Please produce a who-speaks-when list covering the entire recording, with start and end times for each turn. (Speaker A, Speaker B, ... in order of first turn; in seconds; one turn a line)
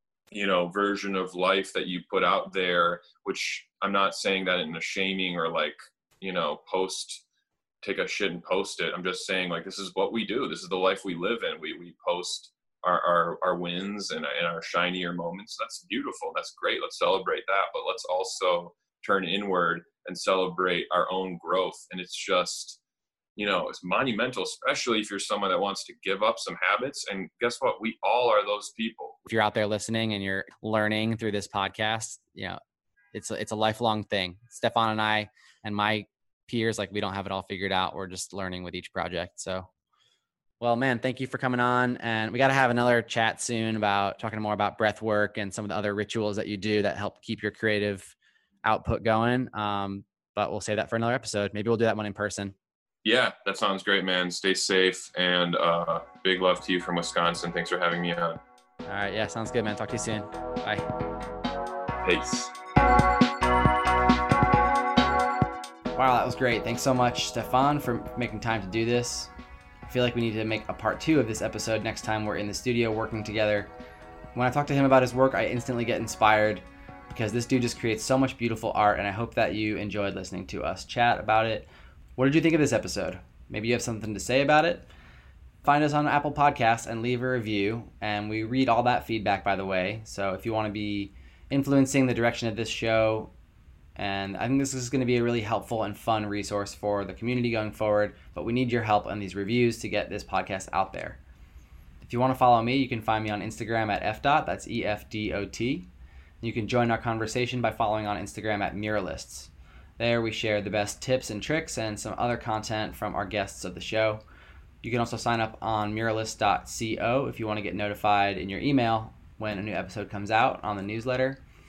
Speaker A: 0.3-7.2
Speaker A: 7.8-22.8
Speaker A: 23.4-29.2
Speaker B: 29.3-32.6
Speaker B: 33.1-39.7
Speaker B: 40.6-52.5
Speaker A: 53.0-58.4
Speaker B: 58.9-60.9
Speaker A: 62.0-62.5
Speaker B: 66.0-69.3
Speaker B: 69.9-73.7
Speaker B: 74.3-84.9
Speaker B: 85.6-93.3
Speaker B: 94.0-101.2
Speaker B: 102.0-105.9
Speaker B: 106.4-114.2
Speaker B: 114.8-121.4